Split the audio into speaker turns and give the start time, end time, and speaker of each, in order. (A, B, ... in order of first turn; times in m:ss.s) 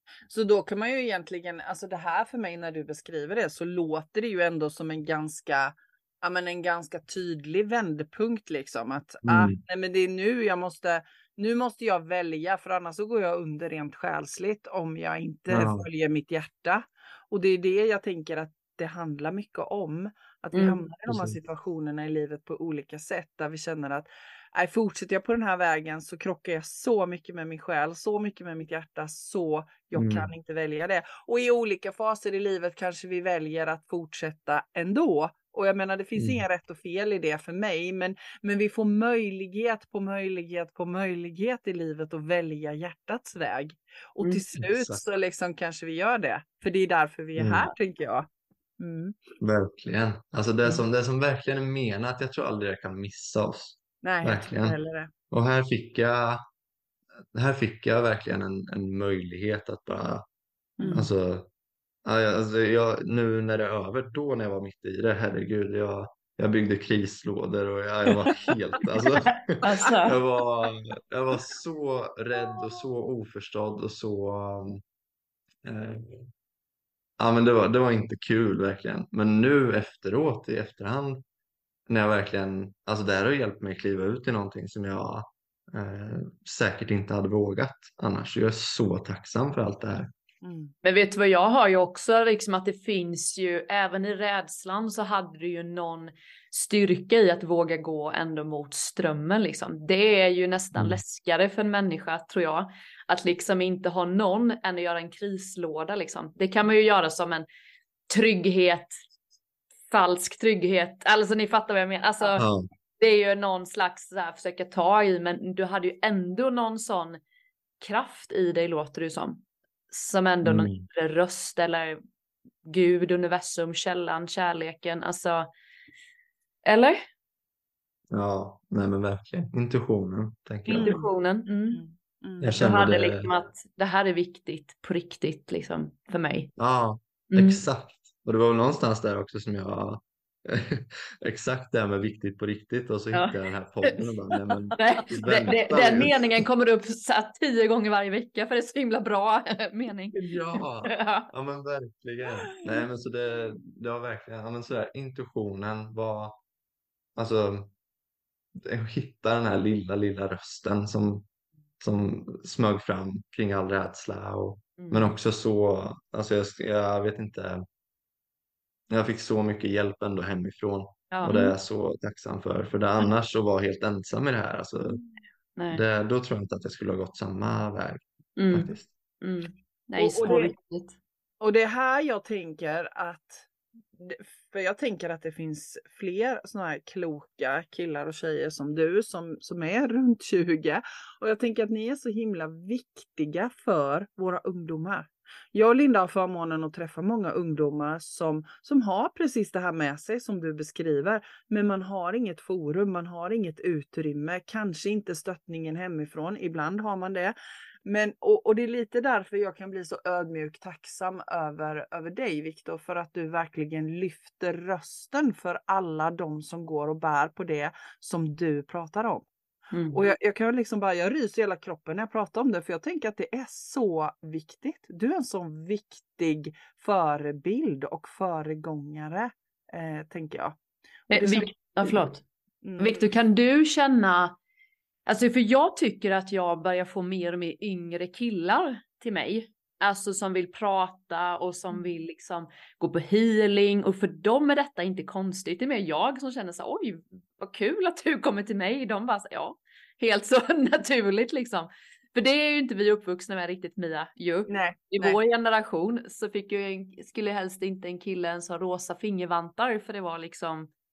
0:00.3-0:49.2 A
0:09.2-0:09.6 B
0:15.5-0:15.9 B
0:20.5-0:20.8 C
0:21.1-0:21.4 B
0:30.0-0:30.3 B
0:36.2-0:36.4 B
0:44.6-0:45.0 B
0:47.4-0:47.7 B
0:49.4-0:54.8 B
0:54.0-0:55.1 A
0:55.3-0:56.4 B
0:57.3-1:00.2 B
1:00.8-1:01.1 C
1:00.9-1:01.5 B
1:02.0-1:14.8 B
1:09.5-1:10.2 C
1:15.6-1:16.3 B
1:17.2-1:21.2 B
1:21.9-1:30.1 B
1:30.4-1:30.7 A
1:30.8-1:47.5 C
1:40.8-1:41.0 B
1:48.1-1:49.0 C
1:49.9-1:52.5 C
1:52.4-1:52.7 B
1:53.0-1:57.2 C
1:57.8-2:02.0 C
2:00.4-2:00.8 B
2:02.6-2:05.5 C
2:06.7-2:07.0 C
2:08.1-2:11.0 B
2:10.7-2:11.8 C
2:10.7-2:12.5 A
2:12.4-2:13.3 B
2:12.6-2:16.5 C
2:16.6-2:26.4 B
2:17.3-2:17.6 C
2:23.1-2:31.3 C
2:30.1-2:36.4 B
2:37.2-2:37.7 B
2:38.6-2:41.3 B
2:41.8-2:47.6 B
2:44.8-2:45.2 C
2:48.9-2:55.0 B
2:51.1-2:51.6 C
2:55.6-2:55.8 C
2:55.7-2:58.9 B
2:58.4-3:01.0 C
3:00.0-3:00.5 A
3:01.4-3:39.3 A
3:39.7-3:40.0 C
3:39.9-3:50.6 A
3:51.1-3:52.0 A
3:51.1-3:52.2 C
3:52.6-3:53.1 A
3:52.8-3:54.4 C
3:55.1-4:20.7 C
4:14.5-4:15.2 A